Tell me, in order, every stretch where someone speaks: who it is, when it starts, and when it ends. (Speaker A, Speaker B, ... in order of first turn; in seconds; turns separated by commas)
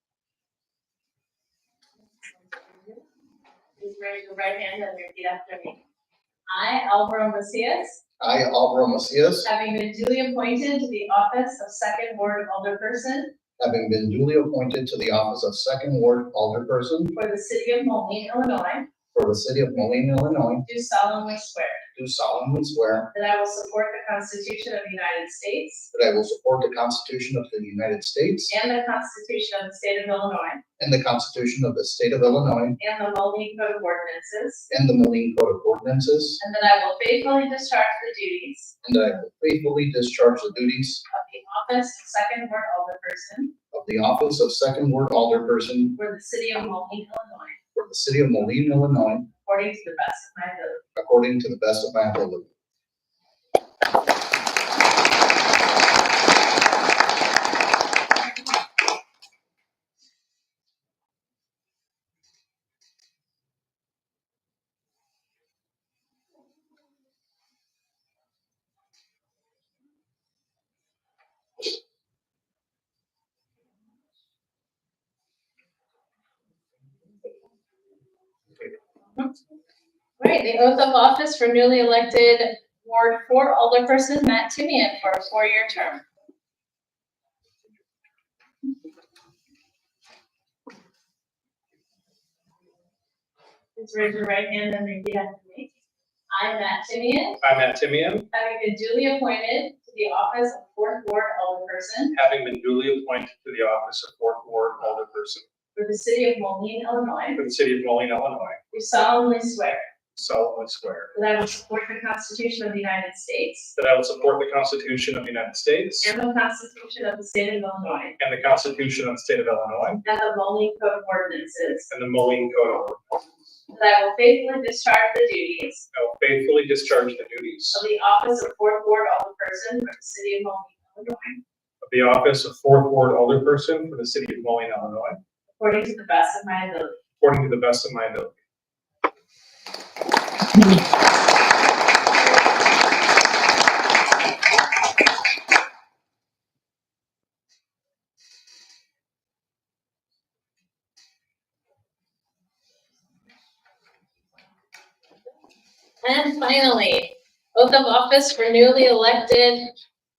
Speaker A: 2.5-3.0, Speaker A: 3.8-5.8, Speaker A: 6.5-8.0, Speaker B: 8.2-9.5, Speaker A: 9.4-13.3, Speaker B: 13.6-17.1, Speaker A: 17.1-18.9, Speaker B: 19.1-20.6, Speaker A: 20.6-21.9, Speaker B: 22.0-23.1, Speaker A: 23.1-25.9, Speaker B: 25.9-28.5, Speaker A: 28.5-30.6, Speaker B: 30.8-32.8, Speaker A: 32.8-34.7, Speaker B: 34.7-36.4, Speaker A: 36.4-38.7, Speaker B: 38.8-41.0, Speaker A: 41.1-43.5, Speaker B: 43.7-46.0, Speaker A: 46.0-47.6, Speaker B: 47.8-49.3, Speaker A: 49.4-50.8, Speaker B: 51.0-52.5, Speaker A: 80.2-86.0, Speaker A: 93.8-95.7, Speaker A: 96.3-97.4, Speaker C: 97.4-98.3, Speaker A: 98.3-102.2, Speaker C: 102.1-105.4, Speaker A: 105.8-107.4, Speaker C: 107.3-108.6, Speaker A: 108.7-109.9, Speaker C: 110.2-111.1, Speaker A: 111.1-113.8, Speaker C: 113.8-116.1, Speaker A: 116.0-118.2, Speaker C: 118.2-120.0, Speaker A: 120.0-121.9, Speaker C: 121.9-123.2, Speaker A: 123.7-125.9, Speaker C: 125.9-127.8, Speaker A: 127.7-131.4, Speaker C: 131.8-135.2, Speaker A: 135.6-137.0, Speaker C: 137.2-138.3, Speaker A: 156.0-159.7